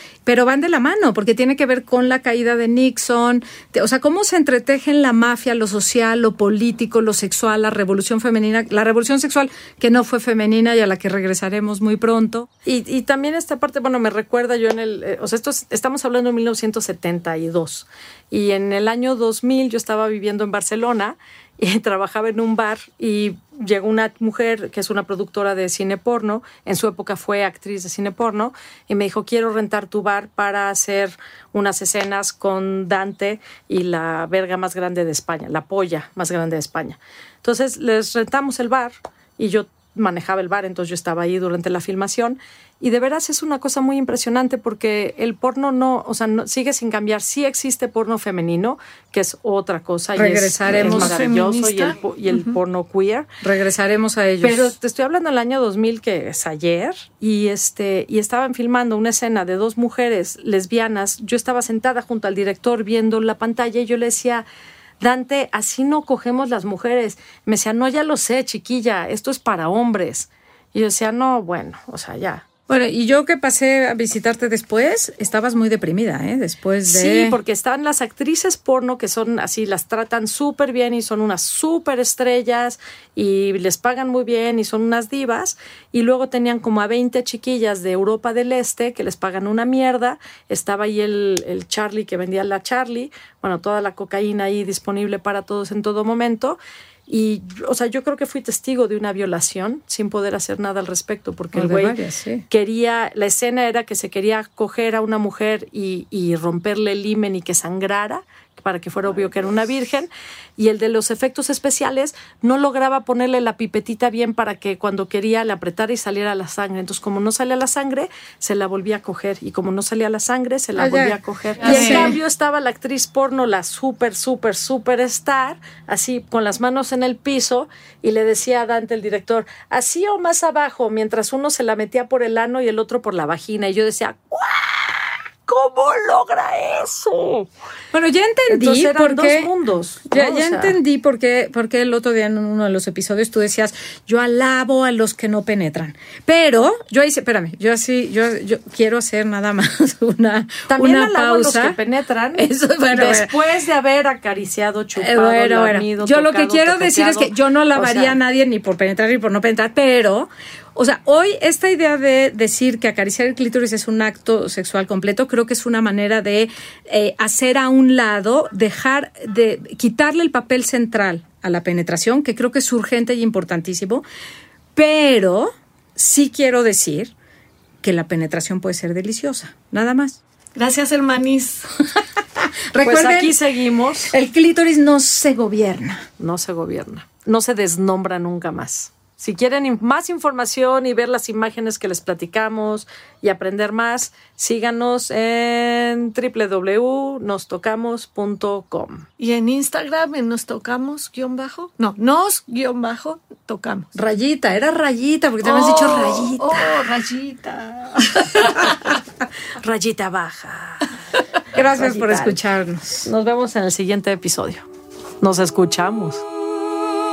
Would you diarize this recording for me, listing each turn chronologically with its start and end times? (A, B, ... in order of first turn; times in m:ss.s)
0:00.2-0:12.5 A
0:12.6-0:53.3 B
0:50.2-0:51.2 A
0:50.7-0:52.6 C
0:53.4-0:54.7 A
0:54.4-1:04.4 B
1:05.0-1:12.4 B
1:12.7-1:17.4 A
1:16.9-1:42.0 B
1:41.5-1:42.4 A
1:42.5-2:17.5 B
2:00.8-2:02.2 A
2:01.6-2:02.1 C
2:17.9-2:19.5 A
2:18.5-2:20.8 B
2:20.0-2:31.8 A
2:30.7-2:38.2 B
2:32.3-2:33.3 A
2:35.0-2:54.0 A
2:54.8-2:57.1 A
2:57.8-3:00.2 A
3:00.5-3:01.7 C
3:02.4-3:03.4 A
3:02.8-3:04.1 B
3:04.1-3:06.1 A
3:06.2-3:19.0 B
3:19.2-3:23.9 C
3:23.9-3:26.7 A
3:25.4-3:28.7 C
3:29.6-3:30.9 B
3:31.5-3:33.1 A
3:31.7-3:32.4 B
3:33.0-3:34.7 B
3:35.2-3:36.2 B